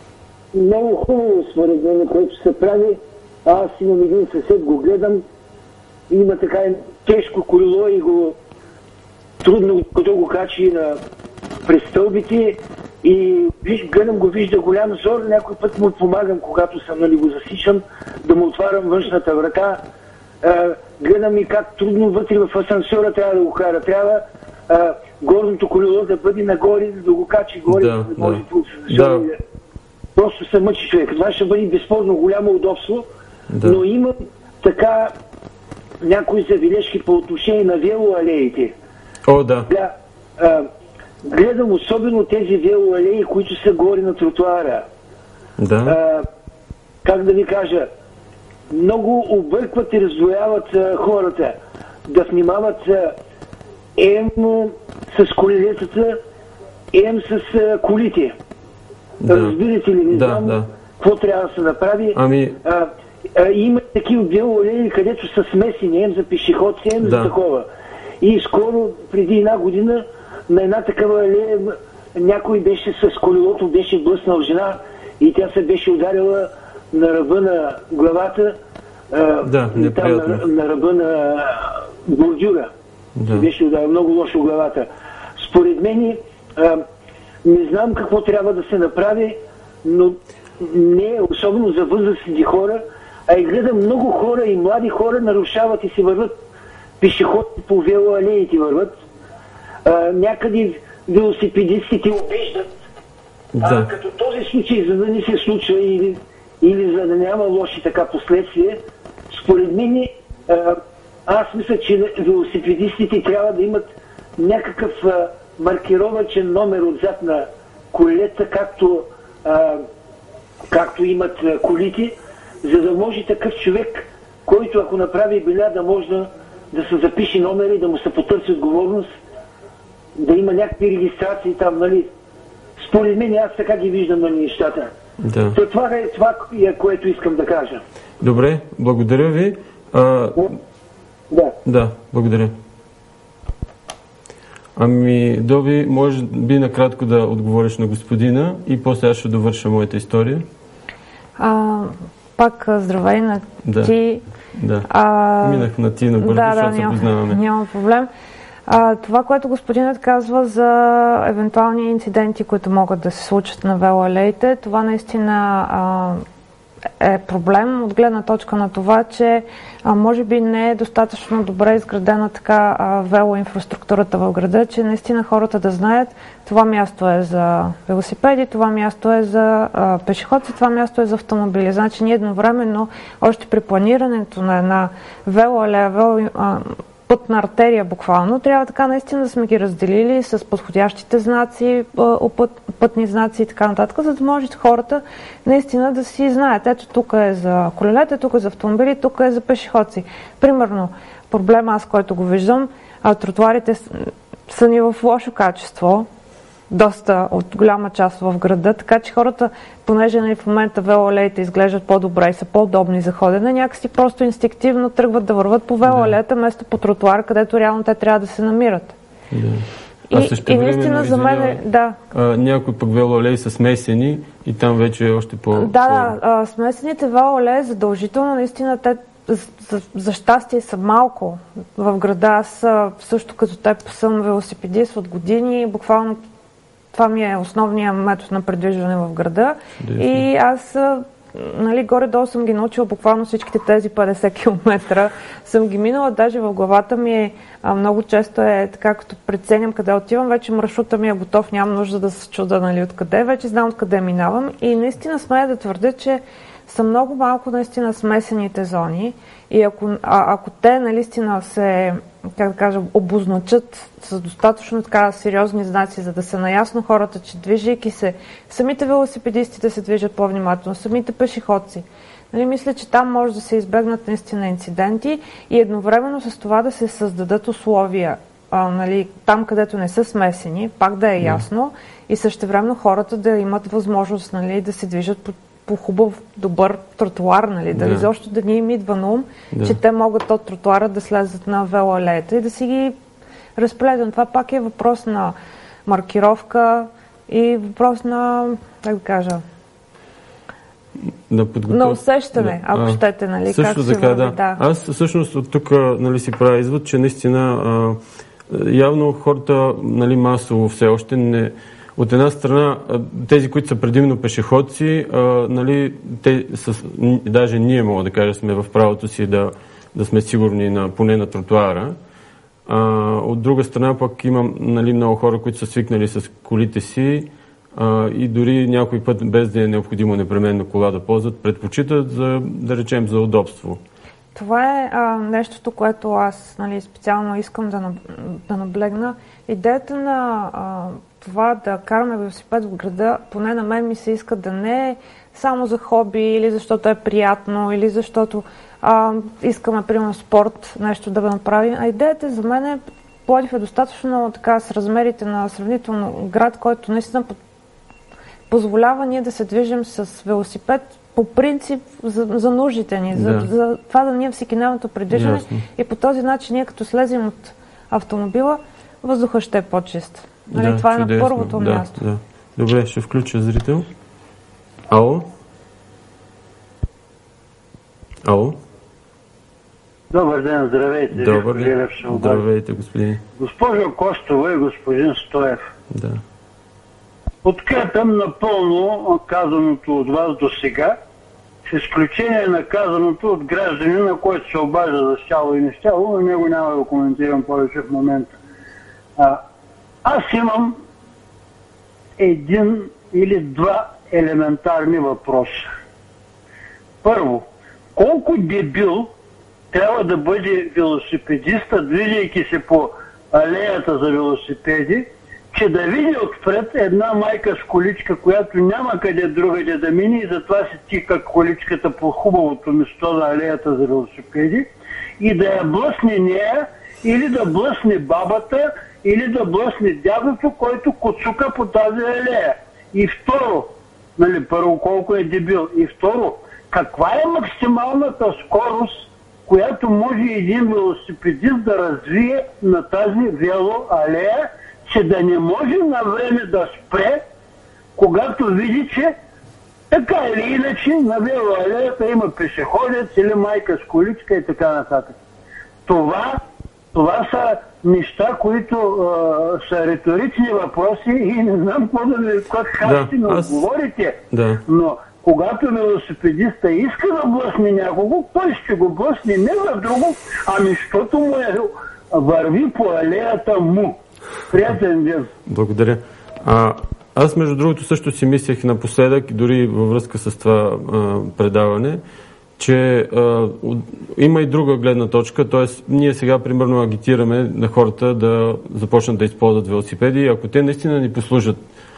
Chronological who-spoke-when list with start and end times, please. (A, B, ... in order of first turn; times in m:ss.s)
0:00.5-0:05.2 A
0:06.1-0:08.4 A
0:09.4-0:11.0 A
0:11.6-0:19.8 A
0:20.4-0:29.4 A
0:27.7-0:29.3 B
0:30.1-0:33.1 A
0:33.5-0:33.8 B
0:33.6-0:35.1 A
0:36.0-0:38.7 A
0:39.2-0:39.7 B
0:39.7-0:40.7 A
0:41.2-0:44.9 A
0:45.6-0:46.0 B
0:45.8-0:46.3 A
0:47.0-0:47.9 A
0:48.7-0:53.2 A
0:54.0-0:56.2 A
0:56.9-0:58.4 A
0:59.2-1:00.7 B
0:59.3-1:07.7 A
1:02.1-1:02.6 B
1:07.0-1:07.3 B
1:08.2-1:18.6 A
1:19.1-1:22.7 A
1:19.4-1:20.4 B
1:23.2-1:23.5 B
1:23.2-1:26.8 A
1:27.4-1:36.4 A
1:37.0-1:38.9 A
1:39.8-1:42.7 A
1:43.5-1:43.9 B
1:43.6-1:59.9 A
2:00.7-2:09.1 A
2:10.2-2:12.1 A
2:12.8-2:14.9 A
2:15.2-2:15.6 B
2:15.5-2:17.8 A
2:18.2-2:20.5 B
2:21.6-2:22.5 B
2:24.8-2:30.4 B
2:31.4-2:34.2 C
2:33.6-2:33.9 B
2:34.5-2:34.9 B
2:34.9-2:35.7 C
2:35.4-2:37.4 B
2:36.2-2:38.1 C
2:38.7-2:46.2 C
2:47.0-3:26.1 C
3:26.7-3:38.9 C
3:35.8-3:36.1 B
3:39.3-3:46.2 B
3:40.1-3:42.0 C
3:45.5-3:56.2 C
3:56.9-4:53.0 C
3:59.8-4:00.3 B
4:47.7-4:48.1 B
4:49.5-4:49.8 B
4:53.6-4:55.3 C
4:55.8-4:59.4 C
5:01.3-5:22.0 B
5:01.7-5:04.6 C
5:22.6-5:33.8 B
5:34.3-5:57.4 C
5:58.5-6:12.0 C
6:03.1-6:03.5 B
6:05.1-6:05.6 B
6:10.5-6:13.9 B
6:14.9-6:15.3 B
6:18.2-6:18.6 B
6:20.1-6:22.4 D
6:21.1-6:23.2 B
6:23.4-6:25.6 D
6:25.9-6:26.2 B
6:27.4-6:31.0 D
6:31.6-6:38.4 D
6:40.0-6:40.8 D
6:42.2-6:45.7 D
6:47.0-6:49.1 D
6:49.7-7:04.7 D
7:05.2-7:27.2 D
7:28.0-7:29.1 D
7:29.9-7:35.2 D
7:35.8-7:36.4 D
7:36.9-7:54.0 D
7:42.8-7:43.7 B
7:44.3-7:44.6 B
7:54.5-7:55.3 D
7:55.5-8:02.0 B
8:02.6-8:11.6 B